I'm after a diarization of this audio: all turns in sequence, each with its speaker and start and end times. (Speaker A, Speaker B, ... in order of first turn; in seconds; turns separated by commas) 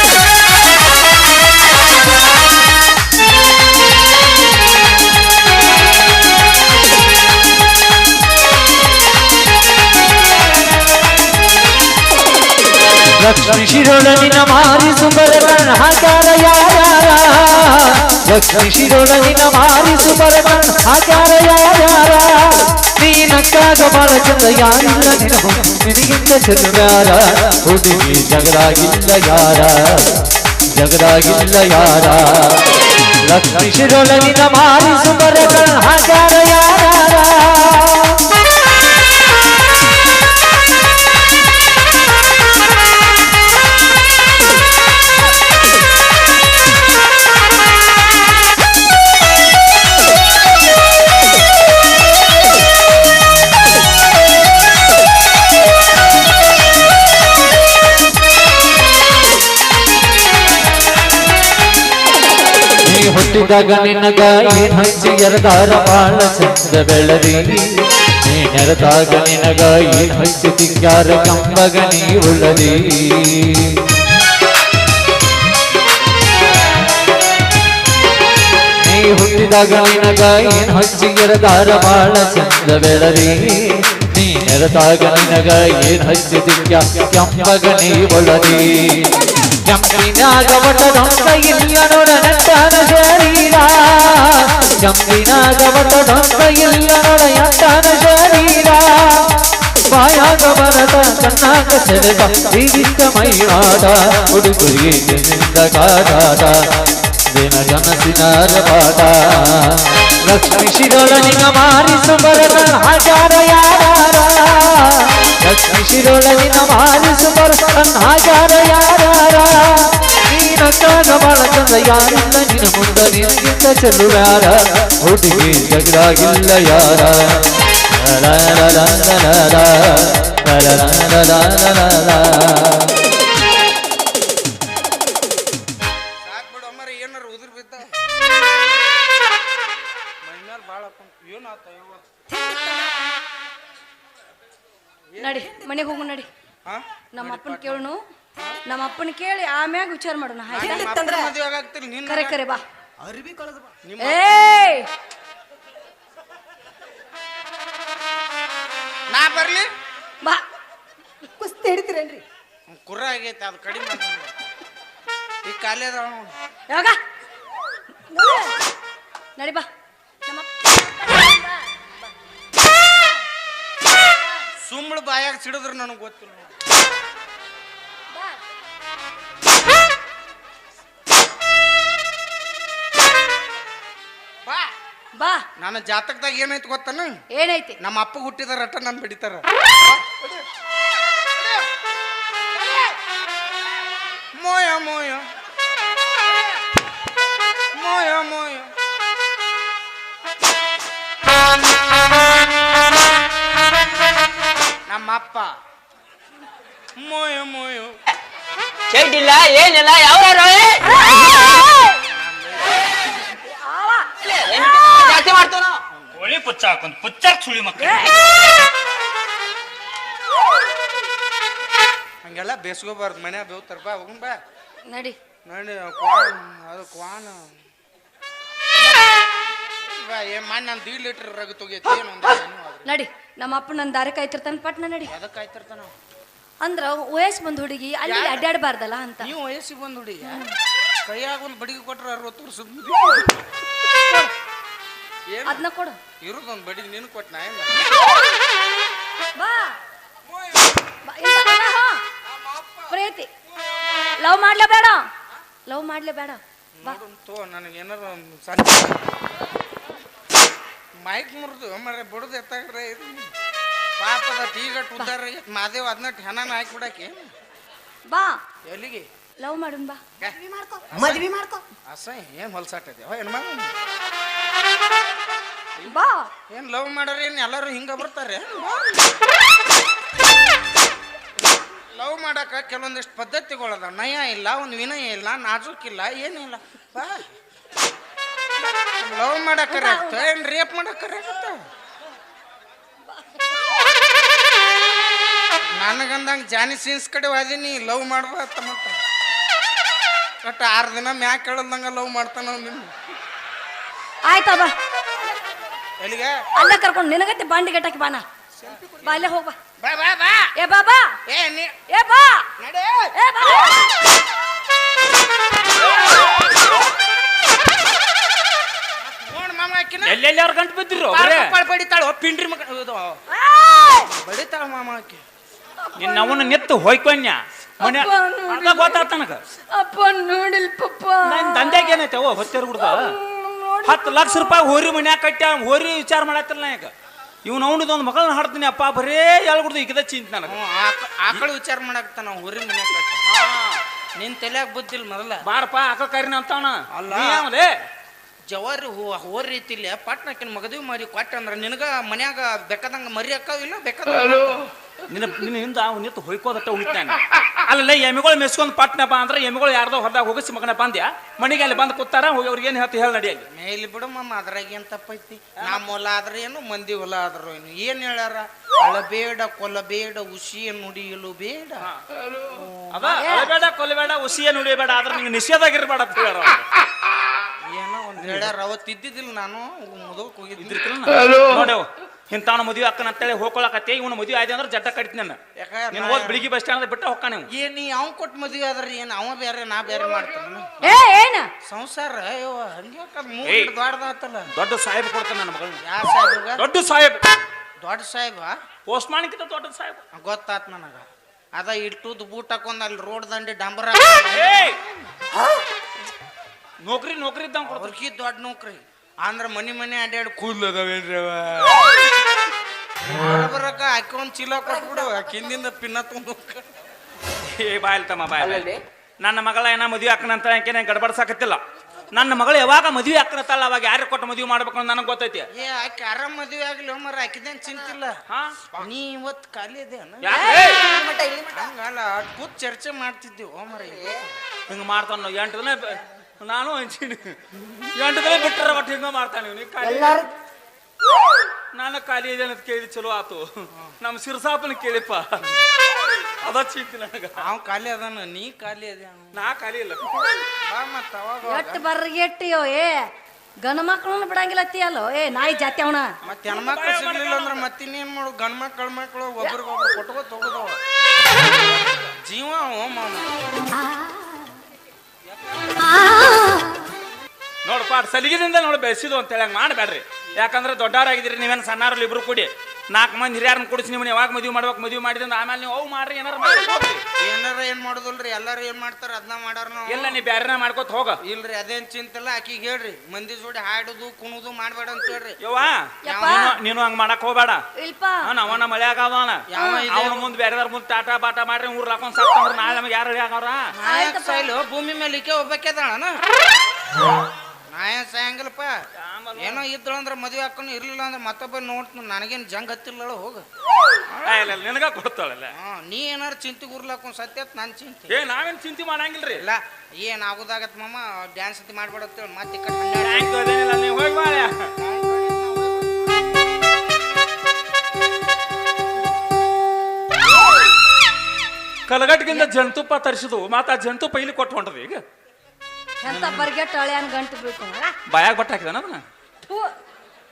Speaker A: 13.2-38.3, Speaker A: 62.8-73.8, Speaker A: 78.8-133.0, Speaker B: 136.2-137.9, Speaker B: 140.2-142.0, Speaker C: 142.3-143.0, Speaker B: 145.1-145.7, Speaker C: 145.2-146.3, Speaker B: 146.7-148.6, Speaker C: 147.1-148.0, Speaker C: 148.6-151.3, Speaker B: 150.5-152.4, Speaker C: 152.1-152.6, Speaker D: 153.0-153.7, Speaker B: 153.8-154.2, Speaker C: 154.0-154.9, Speaker B: 159.1-159.7, Speaker D: 161.4-162.2, Speaker B: 162.7-164.5, Speaker B: 165.4-166.3, Speaker C: 166.7-167.0, Speaker C: 168.1-168.6, Speaker C: 169.4-169.7, Speaker C: 170.2-172.1, Speaker C: 172.6-173.2, Speaker B: 174.6-176.5, Speaker C: 178.1-178.4, Speaker C: 185.2-185.4, Speaker B: 185.6-187.1, Speaker C: 187.3-187.8, Speaker B: 187.8-190.4, Speaker B: 191.4-191.6, Speaker B: 192.6-192.9, Speaker B: 194.3-195.2, Speaker B: 197.8-198.7, Speaker B: 204.9-205.5, Speaker B: 206.9-207.9, Speaker E: 208.9-210.8, Speaker C: 210.9-211.9, Speaker B: 212.0-212.9, Speaker C: 213.3-215.2, Speaker E: 214.5-215.8, Speaker B: 215.9-216.2, Speaker F: 216.3-217.8, Speaker E: 216.4-217.7, Speaker C: 217.8-218.2, Speaker B: 222.2-224.4, Speaker C: 224.9-225.2, Speaker B: 225.4-227.5, Speaker B: 229.8-232.9, Speaker C: 232.8-235.1, Speaker B: 235.1-235.9, Speaker C: 236.6-239.3, Speaker B: 238.0-238.4, Speaker B: 239.2-240.5, Speaker C: 240.2-240.5, Speaker B: 241.1-243.3, Speaker C: 243.9-244.3, Speaker B: 245.3-245.6, Speaker C: 245.4-245.9, Speaker B: 246.2-248.0, Speaker C: 247.9-248.2, Speaker C: 249.3-249.8, Speaker B: 250.3-250.7, Speaker C: 251.1-252.0, Speaker B: 252.2-253.0, Speaker C: 252.9-253.3, Speaker C: 254.2-255.0, Speaker C: 255.7-256.9, Speaker B: 256.8-259.0, Speaker B: 261.0-263.3, Speaker B: 264.0-267.3, Speaker C: 268.1-268.4, Speaker B: 268.6-269.1, Speaker C: 269.4-270.0, Speaker D: 270.5-271.6, Speaker B: 270.9-271.3, Speaker B: 271.9-273.7, Speaker C: 275.9-276.3, Speaker B: 276.5-279.0, Speaker B: 281.9-287.3, Speaker B: 288.8-291.6, Speaker C: 289.7-290.3, Speaker C: 293.2-293.5, Speaker B: 295.7-299.0, Speaker B: 300.4-302.9, Speaker C: 304.2-304.7, Speaker B: 306.0-306.4, Speaker C: 306.5-308.2, Speaker B: 308.6-310.5, Speaker C: 309.0-309.6, Speaker C: 310.6-311.1, Speaker B: 311.3-311.7, Speaker C: 311.9-312.4, Speaker B: 312.6-313.1, Speaker C: 313.1-313.9, Speaker B: 319.0-320.2, Speaker F: 320.0-321.5, Speaker B: 321.1-323.2, Speaker C: 323.3-324.1, Speaker B: 324.1-325.2, Speaker C: 325.8-326.6, Speaker F: 326.0-329.4, Speaker C: 327.8-329.0, Speaker C: 329.7-332.0, Speaker F: 331.2-333.1, Speaker C: 332.8-334.6, Speaker F: 333.8-336.9, Speaker F: 337.4-340.6, Speaker B: 340.5-343.2, Speaker F: 343.2-343.8, Speaker B: 344.2-345.4, Speaker F: 345.4-347.7, Speaker B: 346.9-347.4, Speaker B: 348.5-354.6, Speaker F: 355.1-363.5, Speaker B: 363.5-373.2, Speaker F: 365.6-365.9, Speaker F: 372.9-376.7, Speaker C: 373.2-373.5, Speaker B: 377.6-380.8, Speaker F: 378.2-378.5, Speaker F: 380.6-385.4, Speaker B: 385.6-386.5, Speaker F: 385.9-387.5, Speaker B: 387.5-390.8, Speaker C: 390.8-391.5, Speaker B: 391.6-394.5, Speaker F: 393.4-393.7, Speaker F: 394.5-395.8, Speaker B: 395.8-396.6, Speaker F: 396.6-397.2, Speaker B: 397.8-398.5, Speaker F: 398.9-400.0, Speaker B: 400.1-404.9, Speaker F: 404.3-404.8, Speaker F: 406.8-407.9, Speaker B: 407.6-412.0, Speaker B: 413.1-416.7, Speaker F: 417.4-421.6, Speaker F: 422.1-425.5, Speaker B: 425.5-428.2, Speaker F: 428.3-428.7, Speaker B: 428.7-430.6, Speaker F: 430.2-430.9, Speaker D: 430.8-431.6, Speaker B: 431.5-434.3, Speaker F: 434.7-440.3, Speaker D: 439.8-440.2, Speaker F: 441.7-443.4, Speaker F: 444.0-445.6, Speaker F: 446.2-447.4, Speaker B: 447.4-449.4, Speaker F: 449.3-450.1, Speaker B: 450.6-451.8, Speaker C: 451.5-453.1, Speaker C: 453.6-456.1, Speaker B: 456.2-460.8, Speaker F: 456.3-457.6, Speaker B: 462.2-463.3, Speaker B: 465.6-465.9, Speaker C: 466.2-466.6, Speaker F: 467.6-477.0, Speaker B: 477.2-480.2, Speaker F: 479.9-481.2, Speaker B: 481.2-485.4, Speaker F: 485.4-487.6, Speaker C: 486.0-486.5, Speaker B: 486.0-486.5, Speaker C: 487.8-488.2, Speaker F: 488.2-493.6, Speaker B: 489.5-490.3, Speaker B: 493.7-496.2, Speaker C: 493.8-494.5, Speaker B: 497.7-498.7, Speaker F: 499.0-499.6, Speaker B: 499.4-503.4, Speaker F: 504.1-505.5, Speaker B: 504.2-504.5, Speaker B: 505.5-508.1, Speaker F: 508.1-509.4, Speaker B: 509.3-513.3, Speaker F: 513.0-514.5, Speaker B: 514.8-516.2, Speaker F: 521.9-525.0, Speaker C: 526.0-527.9, Speaker F: 526.0-526.5, Speaker F: 528.1-529.0, Speaker C: 529.4-529.7